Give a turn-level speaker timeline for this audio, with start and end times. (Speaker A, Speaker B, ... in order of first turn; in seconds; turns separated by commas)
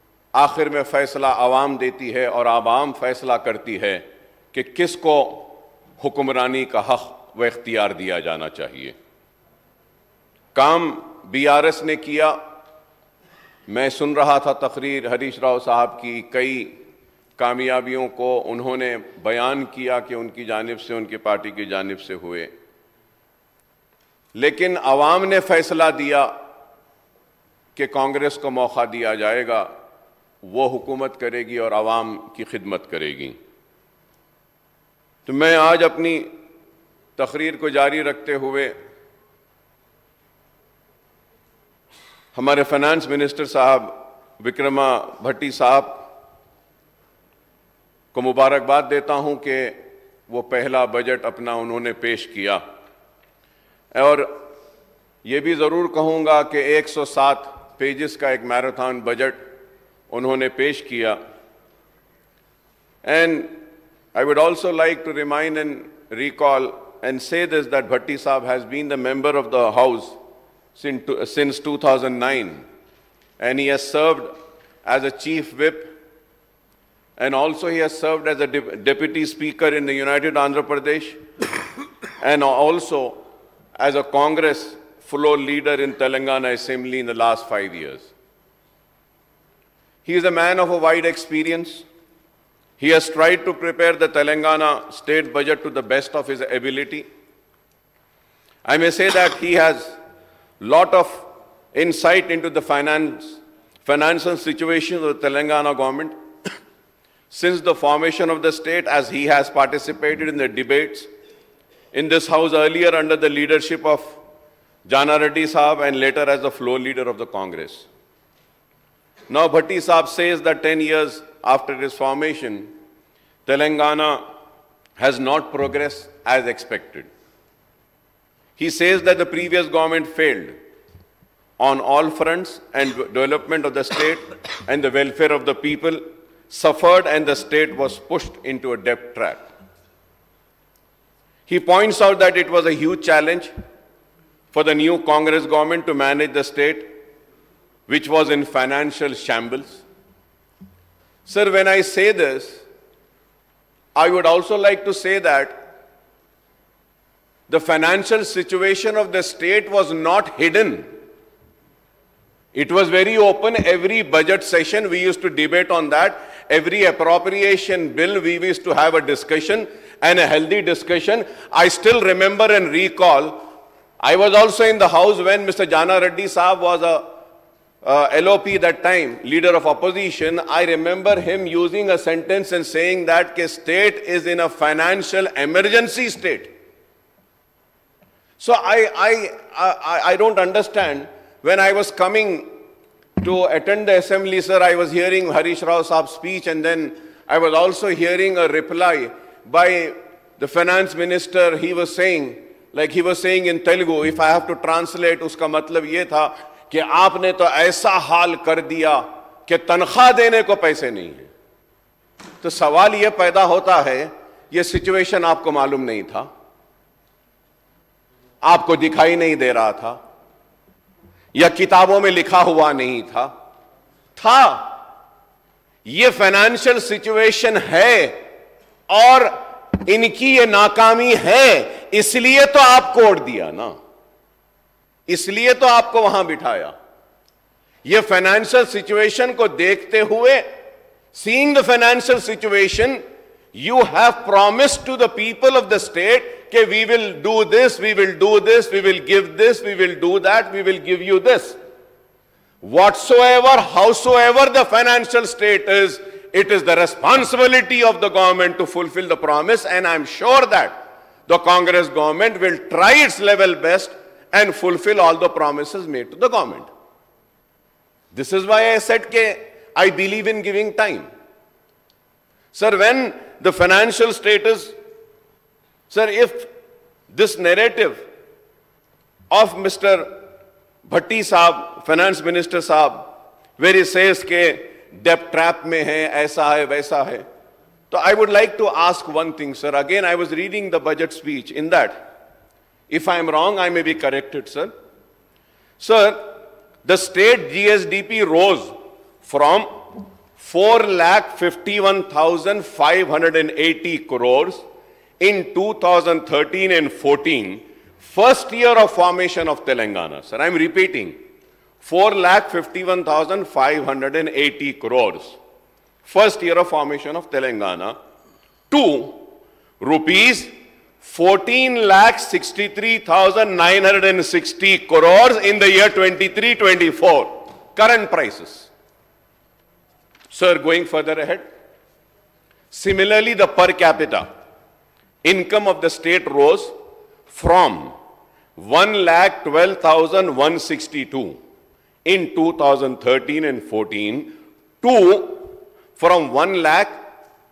Speaker A: 0.3-8.9, Speaker A: 10.5-12.4, Speaker A: 13.7-16.7, Speaker A: 17.4-22.5, Speaker A: 24.3-26.3, Speaker A: 27.8-29.7, Speaker A: 30.4-33.4, Speaker A: 35.2-36.3, Speaker A: 37.2-38.7, Speaker A: 42.3-46.1, Speaker A: 48.1-52.6, Speaker A: 53.9-54.3, Speaker A: 55.2-59.4, Speaker A: 60.1-61.2, Speaker A: 63.0-63.5, Speaker A: 64.1-70.2, Speaker A: 70.7-72.6, Speaker A: 73.4-74.3, Speaker A: 74.8-75.9, Speaker A: 77.2-81.2, Speaker A: 82.2-83.2, Speaker A: 83.8-88.1, Speaker A: 90.0-91.8, Speaker A: 92.8-97.1, Speaker A: 98.7-100.0, Speaker A: 100.6-106.1, Speaker A: 107.3-111.1, Speaker A: 111.9-114.2, Speaker A: 114.8-117.9, Speaker A: 119.3-122.7, Speaker A: 123.5-124.2, Speaker A: 125.0-127.1, Speaker A: 128.6-130.6, Speaker A: 131.6-139.4, Speaker A: 141.5-143.5, Speaker A: 144.5-146.9, Speaker A: 147.9-149.8, Speaker A: 151.2-152.6, Speaker A: 153.9-155.6, Speaker A: 157.5-160.9, Speaker A: 162.5-173.4, Speaker A: 174.0-177.1, Speaker A: 177.8-186.5, Speaker A: 188.4-192.5, Speaker A: 193.2-211.3, Speaker A: 212.4-216.3, Speaker A: 218.4-220.0, Speaker A: 221.3-223.3, Speaker A: 224.2-224.8, Speaker A: 225.8-228.2, Speaker A: 228.9-233.7, Speaker A: 235.1-236.7, Speaker A: 237.8-240.4, Speaker A: 241.1-243.0, Speaker A: 243.5-251.6, Speaker A: 252.6-266.7, Speaker A: 268.1-271.1, Speaker A: 272.5-274.7, Speaker A: 275.9-276.5, Speaker A: 277.1-278.0, Speaker A: 279.3-280.2, Speaker A: 280.9-287.2, Speaker A: 287.9-292.1, Speaker A: 292.9-294.7, Speaker A: 295.8-304.6, Speaker A: 305.2-311.1, Speaker A: 311.8-315.4, Speaker A: 316.0-317.9, Speaker A: 318.7-319.3, Speaker A: 319.8-328.7, Speaker A: 330.3-331.4, Speaker A: 332.7-334.2, Speaker A: 335.2-336.7, Speaker A: 337.3-337.9, Speaker A: 338.6-341.4, Speaker A: 342.1-347.0